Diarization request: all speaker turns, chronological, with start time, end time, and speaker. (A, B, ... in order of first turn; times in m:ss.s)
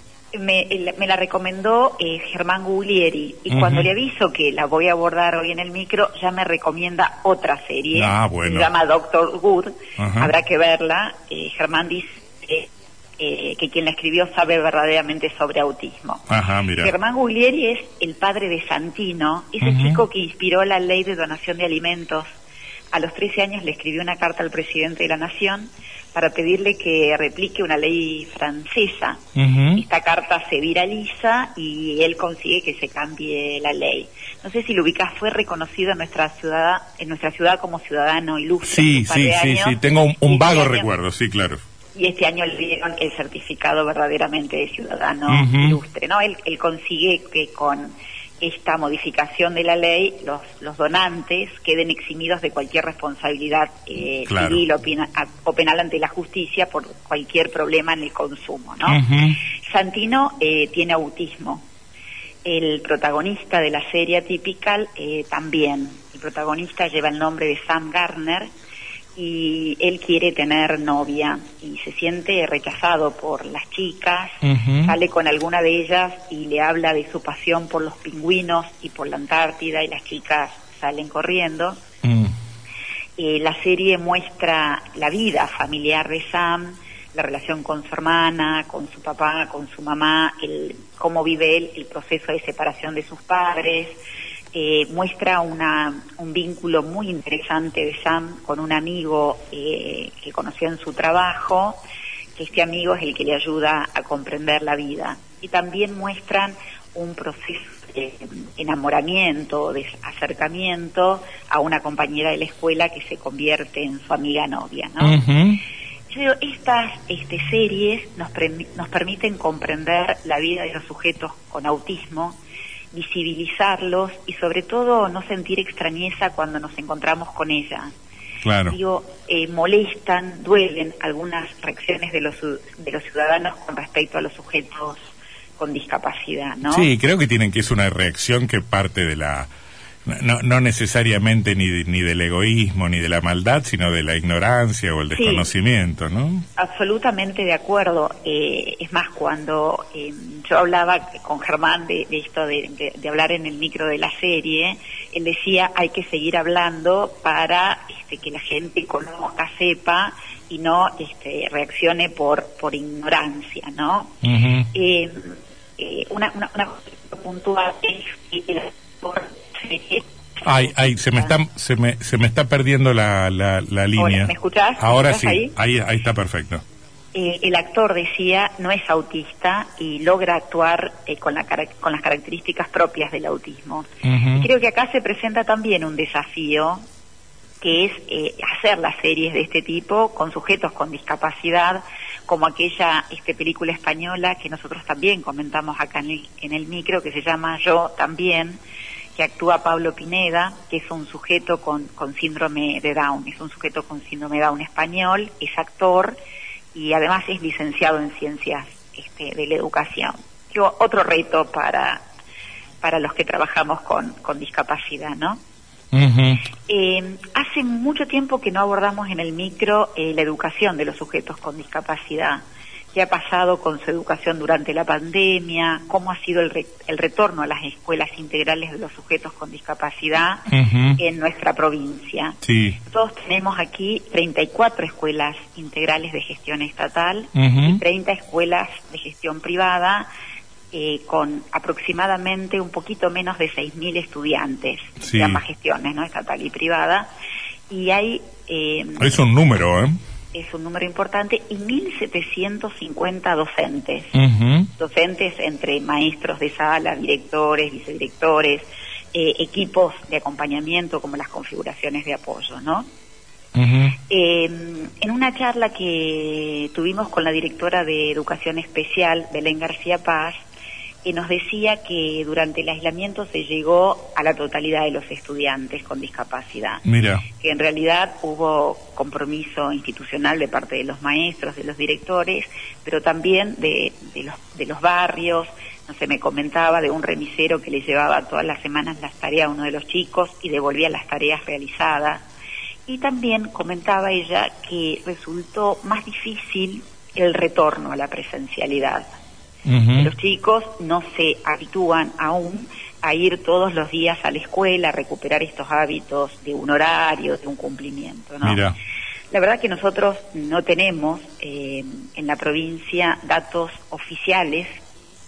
0:00.3-0:16.2 A
0:03.5-0:03.9 B
0:07.9-0:08.7 B
0:10.0-0:10.3 B
0:16.3-0:16.9 B
0:16.8-0:22.3 A
0:19.6-0:20.0 B
0:22.9-0:29.2 A
0:29.4-0:29.8 B
0:29.8-0:40.9 A
0:38.6-0:41.6 B
0:41.9-0:59.0 A
0:45.3-0:45.8 B
0:54.3-0:54.6 B
0:58.8-0:59.4 B
0:59.6-1:01.6 A
1:02.4-1:08.5 A
1:09.2-1:21.8 A
1:14.4-1:14.9 B
1:22.0-1:22.3 B
1:23.2-1:34.0 A
1:34.5-1:41.8 A
1:42.4-1:55.2 A
1:55.0-1:55.6 B
1:56.1-2:02.4 A
2:02.9-2:07.9 A
2:08.4-2:08.8 B
2:08.7-2:16.9 A
2:16.6-2:19.5 B
2:20.1-2:26.4 B
2:25.1-2:25.5 A
2:26.6-2:44.1 A
2:44.2-2:44.7 B
2:44.7-2:51.3 A
2:50.4-2:56.6 B
2:54.0-2:55.5 A
2:57.1-3:06.8 A
3:04.0-3:04.5 B
3:07.6-3:18.6 A
3:19.1-3:26.2 A
3:26.7-3:32.0 A
3:32.8-3:35.4 A
3:35.9-3:36.4 B
3:36.7-4:00.1 A
3:50.5-3:51.0 B
3:52.4-3:52.8 B
3:57.3-3:57.8 B
4:00.7-4:07.1 A
4:05.0-4:05.4 B
4:07.7-4:09.2 A
4:09.0-4:10.0 B
4:10.3-4:14.2 A
4:14.1-4:14.7 B
4:14.8-4:22.9 A
4:23.5-4:24.0 B
4:24.1-4:30.4 A
4:31.0-4:36.8 A
4:36.8-4:37.2 B
4:37.4-4:52.2 A
4:52.9-4:59.1 A
4:59.6-5:00.1 B
4:59.9-5:08.6 A
5:08.4-5:08.8 B
5:09.3-5:14.7 A